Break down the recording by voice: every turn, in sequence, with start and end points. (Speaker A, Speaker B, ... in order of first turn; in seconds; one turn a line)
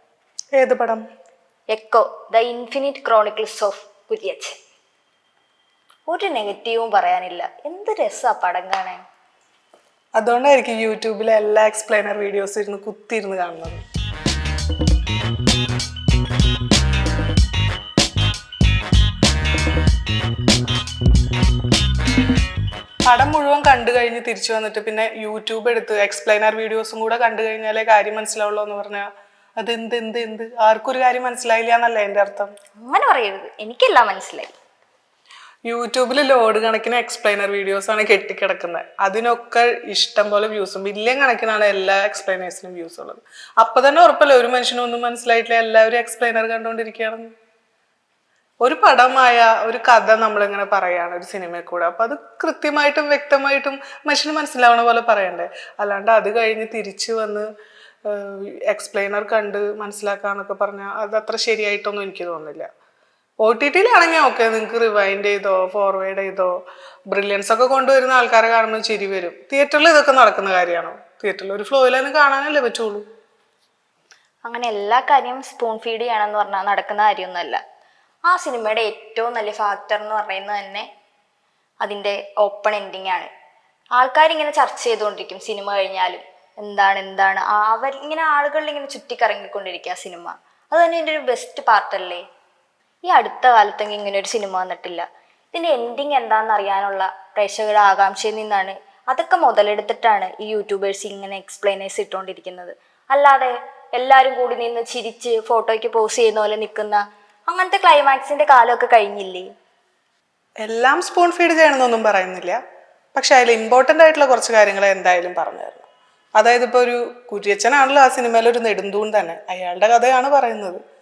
Speaker A: 0.6-1.0
Speaker B: 1.7-4.5
Speaker B: 6.1-9.0
Speaker A: 10.2-13.8
Speaker A: 23.1-29.1
Speaker A: 29.6-32.5
Speaker B: 32.8-34.5
Speaker A: 35.7-47.3
Speaker A: 48.6-57.5
Speaker A: 58.0-62.7
Speaker A: 63.4-66.5
Speaker A: 67.1-73.0
Speaker B: 74.5-77.6
Speaker B: 78.3-80.9
Speaker B: 81.8-83.3
Speaker B: 83.9-92.2
Speaker B: 93.0-109.5
Speaker A: 110.6-112.6
Speaker A: 113.1-115.9
Speaker A: 116.4-120.8